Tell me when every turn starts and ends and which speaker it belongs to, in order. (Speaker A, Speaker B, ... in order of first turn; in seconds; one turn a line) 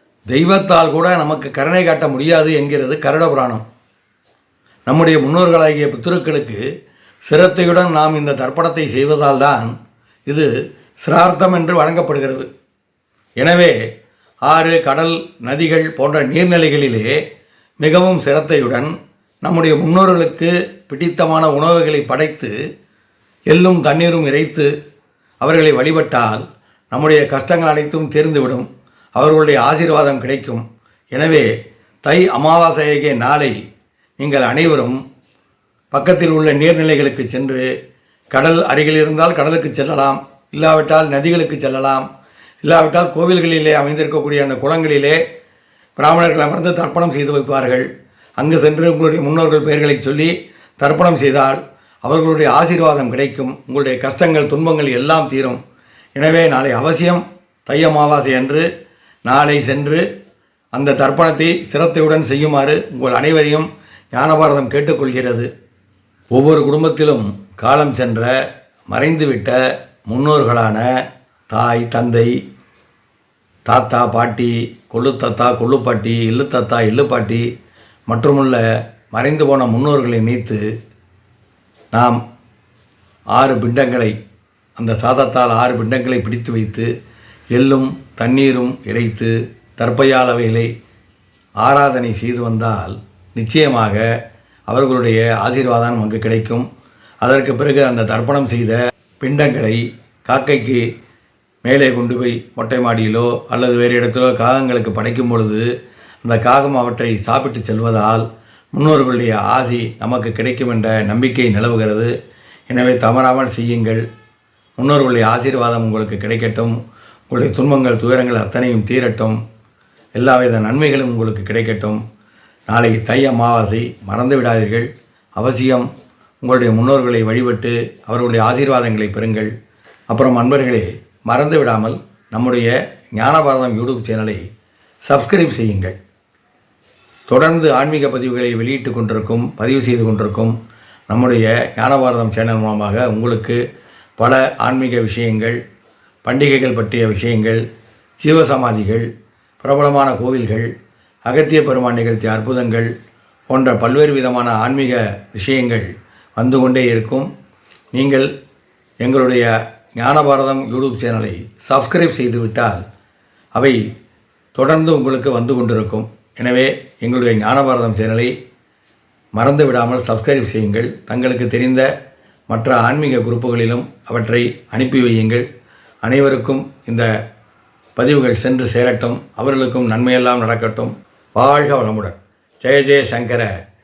Speaker A: 0.3-3.6
Speaker A: 4.9-6.6
Speaker A: 7.3-9.7
Speaker A: 11.0-12.5
Speaker A: 13.4-13.8
Speaker A: 14.5-17.2
Speaker A: 17.8-18.9
Speaker A: 19.4-22.6
Speaker A: 23.5-24.7
Speaker A: 25.4-31.5
Speaker A: 32.0-33.5
Speaker A: 34.2-35.0
Speaker A: 35.9-37.7
Speaker A: 38.3-42.1
Speaker A: 42.6-45.2
Speaker A: 46.0-47.9
Speaker A: 48.4-55.6
Speaker A: 56.2-58.7
Speaker A: 59.3-60.0
Speaker A: 60.7-65.5
Speaker A: 66.3-68.3
Speaker A: 68.9-70.9
Speaker A: 71.5-72.3
Speaker A: 73.7-77.5
Speaker A: 78.1-80.6
Speaker A: 81.9-82.2
Speaker A: 83.3-84.2
Speaker A: 84.8-86.9
Speaker A: 87.5-90.7
Speaker A: 91.6-94.0
Speaker A: 94.7-96.7
Speaker A: 97.2-100.8
Speaker A: 101.6-105.7
Speaker A: 106.2-112.1
Speaker A: 112.7-114.0
Speaker A: 114.8-116.8
Speaker A: 117.3-119.4
Speaker A: 120.2-122.0
Speaker A: 122.7-125.9
Speaker A: 126.4-129.5
Speaker A: 130.1-134.4
Speaker A: 135.1-135.9
Speaker A: 137.3-140.6
Speaker A: 141.1-143.6
Speaker A: 144.2-145.6
Speaker A: 146.2-147.6
Speaker A: 148.2-149.1
Speaker A: 149.6-150.7
Speaker A: 151.3-152.9
Speaker A: 153.5-157.3
Speaker A: 157.9-158.3
Speaker A: 159.0-162.8
Speaker A: 164.6-168.3
Speaker A: 169.4-171.9
Speaker A: 172.5-175.4
Speaker A: 176.0-177.1
Speaker A: 178.0-183.5